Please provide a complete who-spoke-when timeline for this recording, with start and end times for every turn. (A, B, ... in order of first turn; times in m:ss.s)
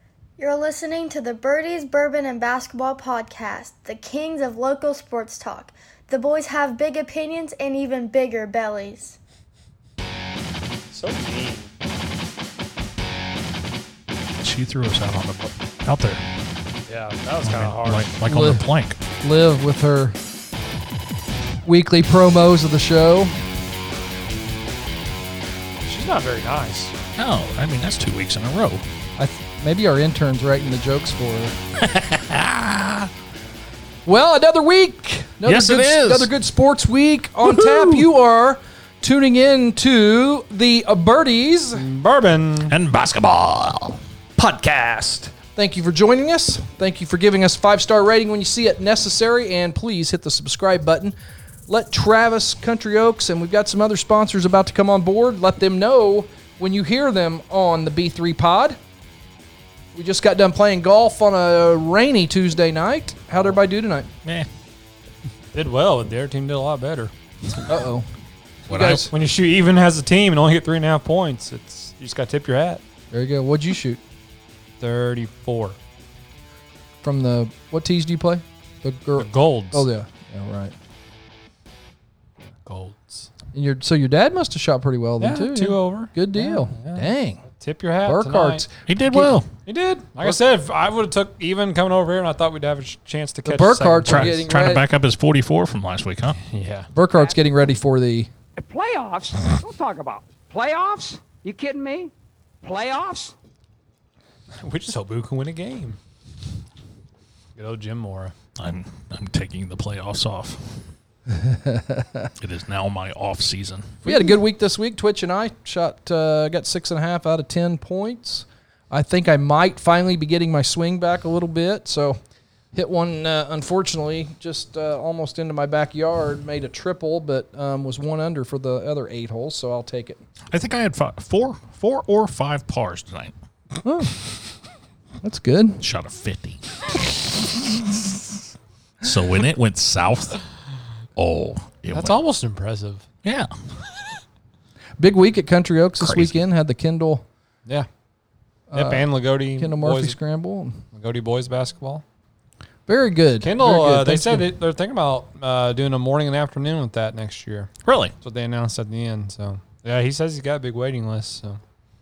0:00.4-0:09.2 A
0:10.9-0:11.7 B
0:14.4-0:16.2 C
0:16.9-0:18.1 B
0:17.4-0:19.0 C
0:18.2-0:18.6 D
0:19.2-0:20.2 D
0:21.6-0:23.3 D
0:25.8-0:26.9 B
0:27.2-0:28.8 C
0:29.2-0:31.6 D
0:31.8-0:33.1 C
0:34.0-0:41.8 D
0:35.4-0:36.3 C
0:37.5-0:37.9 C
0:41.8-0:42.7 B
0:42.7-0:44.0 C
0:44.4-0:51.2 D
0:51.7-0:58.8 D
1:00.0-1:04.1 D
1:04.2-1:04.5 C
1:05.5-1:07.6 B
1:07.7-1:08.1 D
1:08.7-1:09.1 C
1:08.7-1:09.1 D
1:09.1-1:12.8 B
1:13.1-1:14.0 D
1:14.8-1:15.8 B
1:17.0-1:20.7 D
1:19.2-1:19.9 B
1:22.6-1:23.3 B
1:23.5-1:27.4 D
1:25.2-1:28.7 B
1:28.0-1:29.3 D
1:28.9-1:29.5 C
1:29.7-1:34.5 B
1:33.4-1:34.8 D
1:34.1-1:36.4 C
1:36.5-1:36.9 B
1:36.9-1:38.3 D
1:38.6-1:43.3 E
1:44.6-1:46.0 B
1:47.6-1:48.4 B
1:48.6-1:50.8 C
1:51.4-1:52.3 D
1:52.4-1:54.0 C
1:54.0-1:54.4 B
1:54.0-2:02.2 D
2:02.7-2:10.2 D
2:10.5-2:13.3 C
2:13.8-2:14.1 D
2:15.2-2:15.8 D
2:15.8-2:16.6 C
2:19.0-2:20.4 C
2:21.2-2:22.2 C
2:21.9-2:23.0 B
2:23.2-2:23.5 C
2:25.0-2:27.2 D
2:26.0-2:26.4 C
2:28.7-2:30.8 D
2:28.7-2:30.2 B
2:30.9-2:32.0 B
2:32.9-2:34.5 D
2:33.4-2:37.7 B
2:37.8-2:38.1 C
2:38.2-2:41.6 B